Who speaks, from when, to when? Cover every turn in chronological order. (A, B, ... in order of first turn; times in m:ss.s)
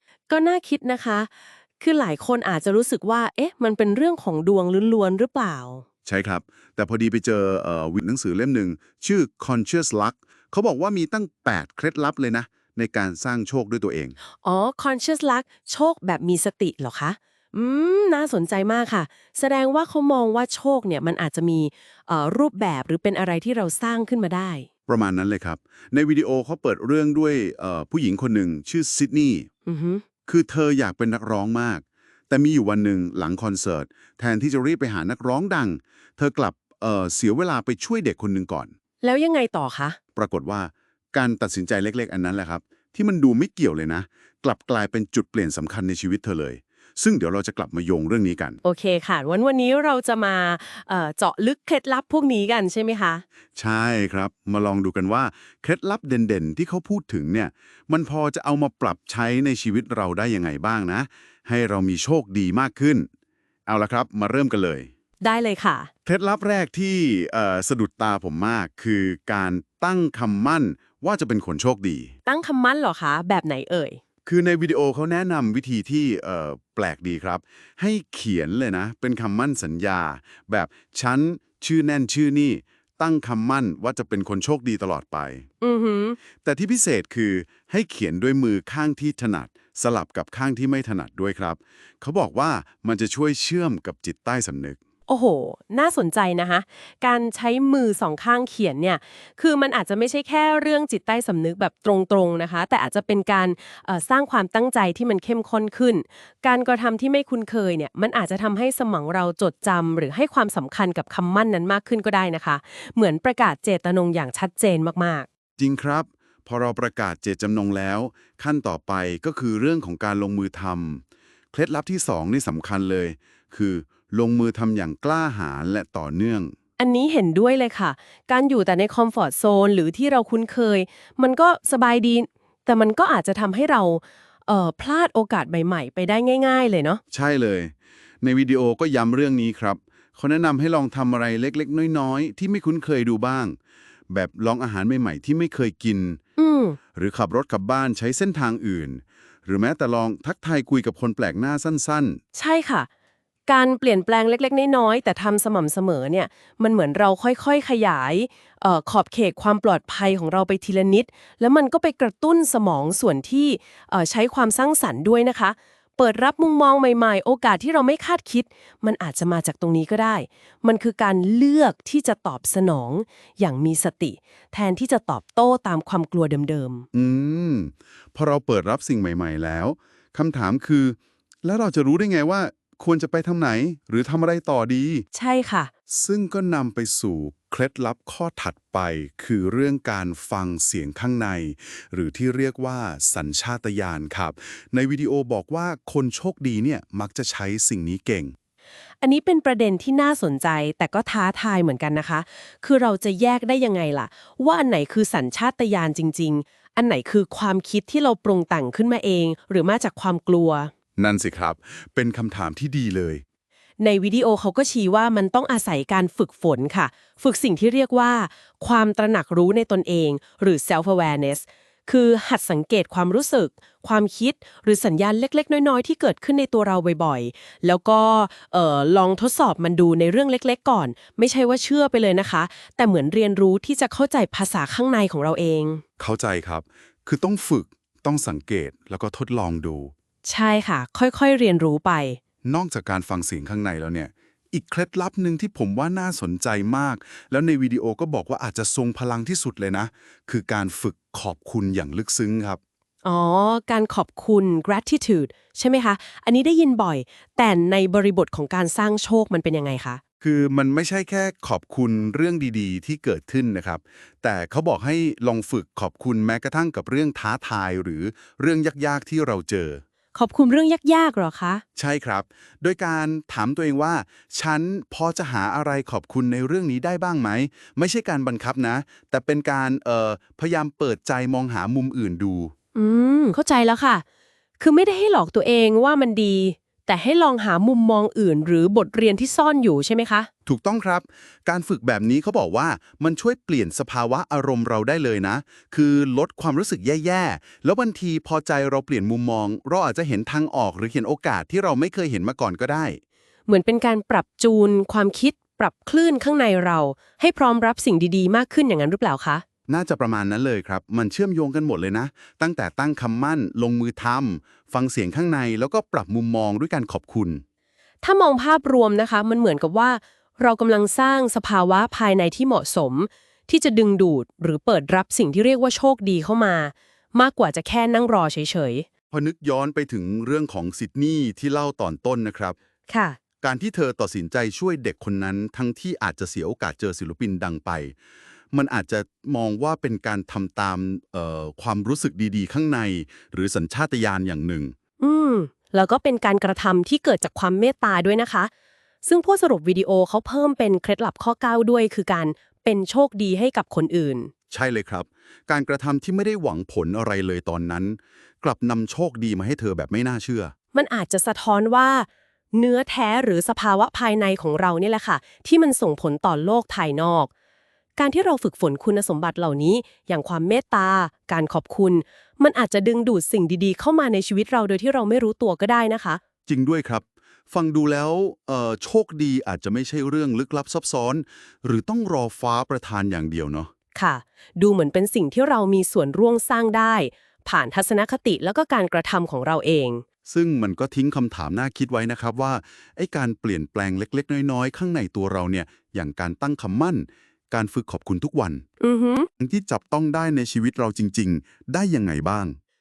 0:00.3-0:05.8 A
0:06.0-0:14.2 B
0:14.4-0:24.7 A
0:24.9-0:29.5 B
0:29.6-0:30.0 A
0:30.2-0:38.7 B
0:39.0-0:40.0 A
0:40.2-0:48.6 B
0:48.6-0:53.2 A
0:53.6-1:03.1 B
1:03.7-1:04.9 B
1:05.2-1:05.9 A
1:06.0-1:12.1 B
1:12.2-1:14.0 A
1:14.2-1:25.4 B
1:25.6-1:26.2 A
1:26.4-1:34.8 B
1:35.1-1:55.3 A
1:55.6-2:06.5 B
2:06.8-2:17.0 A
2:17.1-2:23.6 B
2:24.1-2:26.2 B
2:26.4-2:26.8 A
2:26.9-2:32.2 B
2:32.3-2:32.9 A
2:33.5-2:56.8 A
2:56.9-3:05.0 B
3:05.1-3:05.7 A
3:05.9-3:18.3 B
3:19.0-3:30.7 A
3:31.0-3:33.2 B
3:33.8-3:55.8 A
3:56.0-3:59.9 B
4:00.2-4:02.2 A
4:02.4-4:12.6 B
4:13.0-4:20.0 A
4:20.2-4:29.8 B
4:30.1-4:31.6 A
4:31.8-4:42.5 B
4:42.7-4:44.0 A
4:44.6-4:50.3 A
4:50.4-5:03.0 B
5:03.5-5:09.4 A
5:09.7-5:17.4 B
5:18.0-5:28.8 A
5:29.1-5:32.6 B
5:32.9-5:33.2 A
5:33.4-5:37.9 B
5:38.5-5:44.7 B
5:45.0-5:48.5 A
5:49.0-5:54.3 A
5:54.5-6:00.5 B
6:00.7-6:07.3 A
6:08.0-6:16.2 A
6:16.5-6:23.7 B
6:23.9-6:30.0 A
6:30.2-6:38.6 B
6:38.8-6:39.3 A
6:39.4-6:42.6 B